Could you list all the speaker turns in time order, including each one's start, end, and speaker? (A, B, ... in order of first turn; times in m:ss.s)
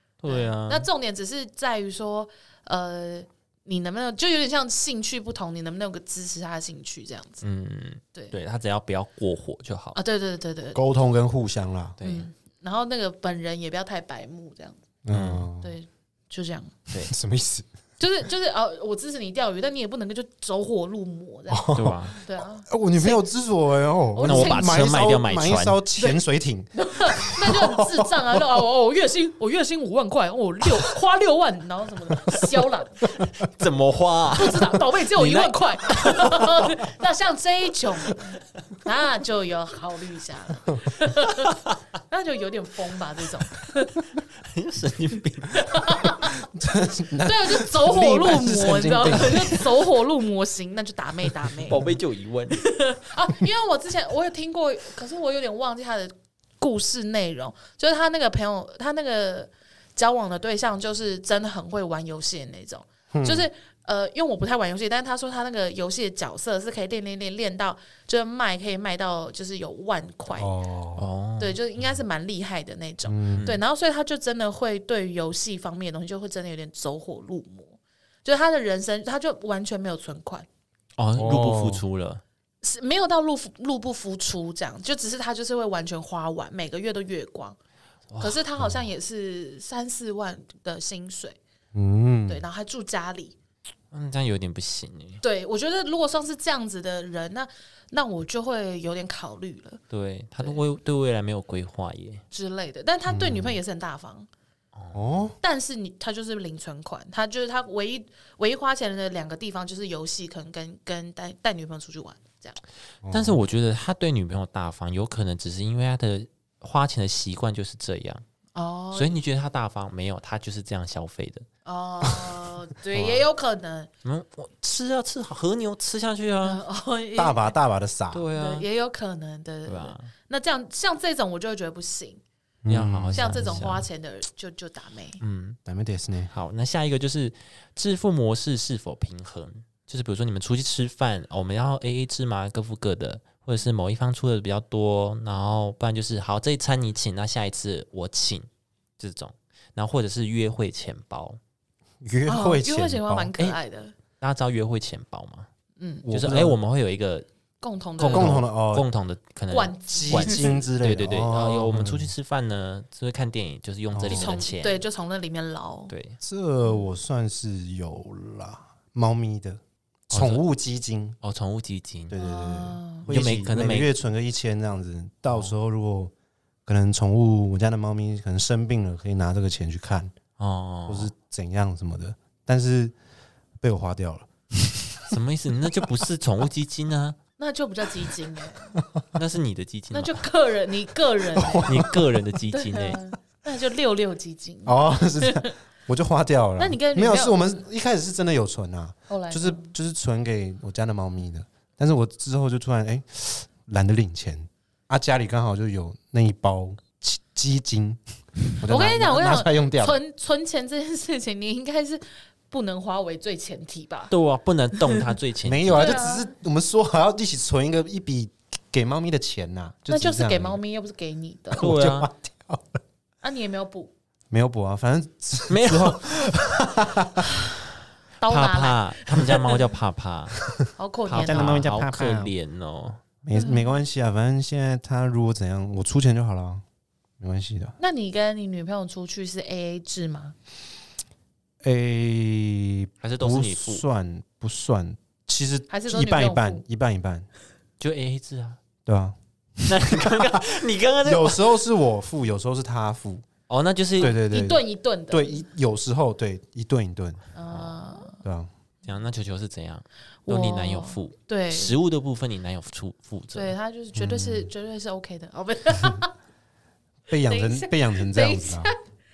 0:00.2-0:00.9 A
0:00.3-0:07.4 B
0:07.4-0:10.0 A
0:10.0-0:10.8 B
0:10.8-0:12.0 C
0:12.0-0:12.3 A
0:12.0-0:14.8 B
0:15.0-0:15.8 C
0:15.1-0:15.5 A
0:15.6-0:16.7 B
0:17.0-0:17.7 C
0:18.0-0:23.2 B
0:21.5-0:22.1 C
0:21.7-0:22.2 A
0:22.6-0:28.4 C
0:24.1-0:24.9 B
0:24.2-0:25.8 A
0:26.7-0:33.3 B
0:32.3-0:32.6 C
0:33.4-0:36.7 A
0:34.4-0:44.0 B
0:44.4-0:45.9 A
0:45.5-0:46.5 B
0:46.4-0:49.7 C
0:47.2-0:51.8 B
0:49.0-0:49.5 A
0:51.7-0:52.6 A
0:51.7-0:51.9 C
0:52.6-1:10.5 B
1:03.1-1:03.5 C
1:10.4-1:11.1 C
1:11.0-1:11.6 A
1:11.4-1:20.5 B
1:13.1-1:13.5 C
1:21.0-1:22.2 A
1:21.2-1:21.8 C
1:22.6-1:27.6 B
1:28.1-1:28.4 A
1:28.2-1:31.4 B
1:31.7-1:32.4 C
1:32.3-1:33.4 B
1:33.9-1:35.2 A
1:35.2-1:39.8 B
1:39.9-1:42.2 A
1:42.3-1:44.3 B
1:43.1-1:43.6 C
1:44.8-1:45.0 A
1:44.9-1:45.4 C
1:45.4-1:52.6 B
1:53.0-1:53.4 C
1:53.1-1:58.2 A
1:58.6-1:59.2 B
1:58.9-2:01.5 A
2:01.6-2:03.9 B
2:02.9-2:03.2 A
2:04.0-2:06.6 A
2:06.4-2:07.6 B
2:07.2-2:08.3 C
2:08.1-2:08.7 A
2:08.3-2:12.2 B
2:09.7-2:10.1 A
2:12.6-2:13.7 C
2:12.7-2:13.8 A
2:13.1-2:15.2 B
2:15.2-2:15.6 A
2:15.7-2:16.3 C
2:16.3-2:28.5 A
2:29.0-2:31.4 A
2:32.0-2:33.3 C
2:32.3-2:34.0 B
2:34.2-2:35.5 A
2:35.8-2:36.0 B
2:36.0-2:36.6 C
2:36.1-2:37.3 A
2:37.6-2:38.4 B
2:38.0-2:44.8 A
2:38.1-2:38.9 C
2:39.5-2:40.6 B
2:39.9-2:42.1 C
2:43.9-2:44.4 C
2:44.1-2:45.9 B
2:45.9-2:46.2 A
2:46.2-2:51.2 C
2:50.1-2:50.4 A
2:51.2-2:52.2 A
2:52.1-2:56.1 C
2:52.2-2:53.1 B
2:53.1-2:53.9 A
2:56.7-3:00.1 C
3:00.4-3:01.1 A
3:00.9-3:03.0 C
3:03.6-3:05.1 C
3:05.1-3:07.2 A
3:07.4-3:08.7 B
3:08.8-3:09.0 C
3:09.2-3:10.2 A
3:09.9-3:11.9 B
3:11.4-3:12.0 C
3:11.6-3:13.0 A
3:12.5-3:15.5 B
3:14.7-3:28.0 C
3:16.6-3:17.4 B
3:19.1-3:19.7 B
3:28.6-3:30.0 C
3:28.7-3:34.1 B
3:34.1-3:36.0 A
3:35.4-3:40.6 C
3:35.7-3:36.3 B
3:39.9-3:41.7 B
3:41.5-3:42.8 C
3:41.6-3:42.1 A
3:43.2-3:43.9 B
3:44.3-3:47.3 C
3:45.5-3:46.2 A
3:48.2-3:49.6 B
3:48.3-3:50.4 A
3:50.8-3:51.7 B
3:51.1-3:53.0 A
3:51.2-3:52.3 C
3:53.2-3:56.6 C
3:53.4-3:53.7 B
3:57.2-3:57.8 C
3:57.8-4:00.4 B
4:01.6-4:07.3 C
4:03.0-4:03.8 A
4:05.7-4:06.6 B
4:07.8-4:08.6 A
4:08.9-4:10.4 C
4:09.7-4:11.4 A
4:11.0-4:13.2 C
4:13.5-4:14.2 A
4:14.0-4:17.2 C
4:14.0-4:15.4 B
4:17.4-4:18.2 B
4:17.5-4:17.8 A
4:18.2-4:18.5 C
4:18.8-4:23.5 A
4:20.3-4:21.8 B
4:23.3-4:26.1 B
4:24.0-4:24.5 C
4:27.1-4:28.7 C
4:27.2-4:28.8 B